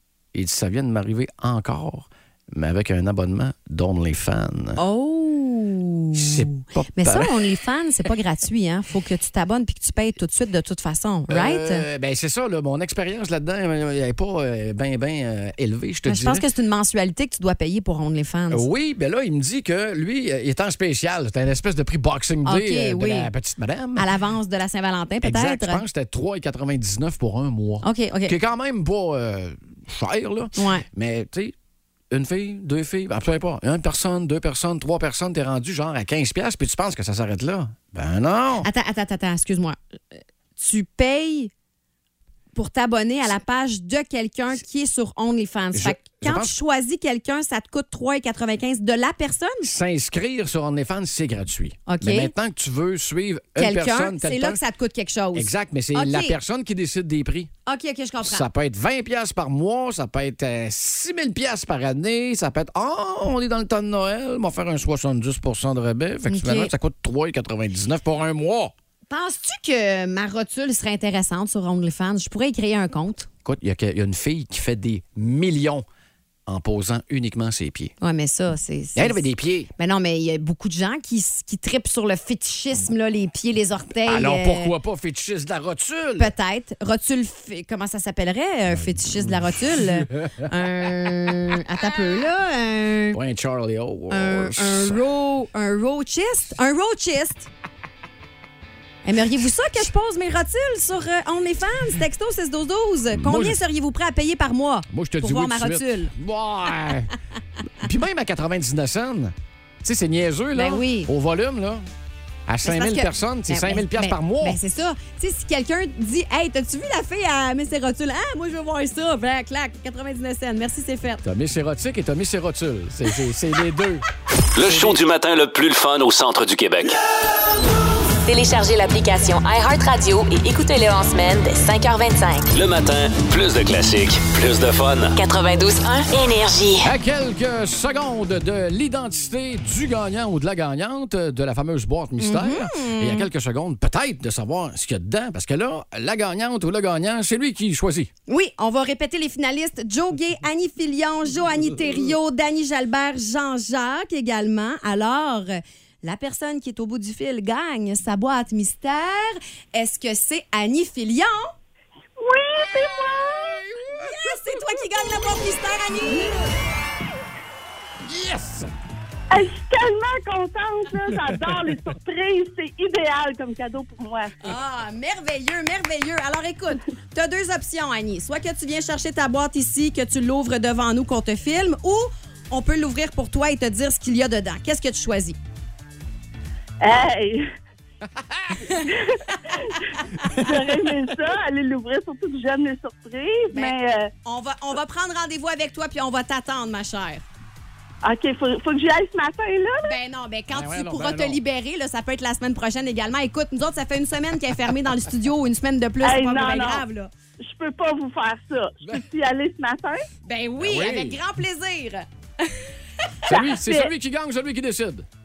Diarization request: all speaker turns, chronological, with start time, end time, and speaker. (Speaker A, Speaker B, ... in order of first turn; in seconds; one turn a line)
Speaker A: 0.3-4.8
Speaker B: 4.8-11.8
Speaker A: 6.1-7.3
Speaker A: 11.3-16.4
Speaker B: 16.1-18.6
Speaker A: 18.5-24.1
Speaker B: 22.4-23.3
Speaker B: 23.9-25.8
Speaker A: 25.2-31.5
Speaker B: 27.8-28.4
Speaker B: 30.6-30.9
Speaker A: 32.1-38.7
Speaker B: 38.6-41.5
Speaker B: 42.5-49.7
Speaker A: 45.7-46.5
Speaker A: 49.6-54.6
Speaker B: 51.9-52.3
Speaker B: 53.6-56.4
Speaker A: 55.3-57.5
Speaker B: 57.6-58.5
Speaker A: 58.2-68.7
Speaker B: 66.3-66.7
Speaker B: 69.1-73.3
Speaker A: 73.4-75.8
Speaker A: 76.5-77.9
Speaker B: 78.0-79.2
Speaker A: 79.0-79.7
Speaker B: 79.8-84.7
Speaker A: 84.1-86.3
Speaker B: 86.2-93.2
Speaker A: 88.7-90.5
Speaker A: 93.1-95.0
Speaker B: 94.1-97.5
Speaker B: 99.0-106.1
Speaker A: 103.1-103.6
Speaker A: 104.9-107.1
Speaker A: 107.8-111.9
Speaker B: 110.5-111.1
Speaker A: 112.5-114.6
Speaker B: 112.6-121.2
Speaker A: 121.2-124.0
Speaker C: 124.5-127.0
Speaker D: 128.3-132.5
Speaker C: 132.5-135.2
Speaker D: 135.2-136.9
Speaker A: 136.8-148.1
Speaker B: 142.2-143.3
Speaker B: 148.3-161.5
Speaker E: 162.2-163.6
Speaker A: 162.7-164.3
Speaker B: 164.0-166.4
Speaker A: 168.1-168.7
Speaker E: 169.3-174.4
Speaker B: 174.4-185.4
Speaker E: 186.8-187.5
Speaker A: 188.3-188.6
Speaker E: 188.8-194.1
Speaker B: 193.5-197.2
Speaker E: 198.0-199.9
Speaker B: 199.8-207.1
Speaker A: 200.5-201.4
Speaker E: 206.0-206.8
Speaker E: 207.4-210.1
Speaker B: 210.3-212.7
Speaker A: 210.6-211.2
Speaker A: 213.3-215.1
Speaker E: 213.3-213.9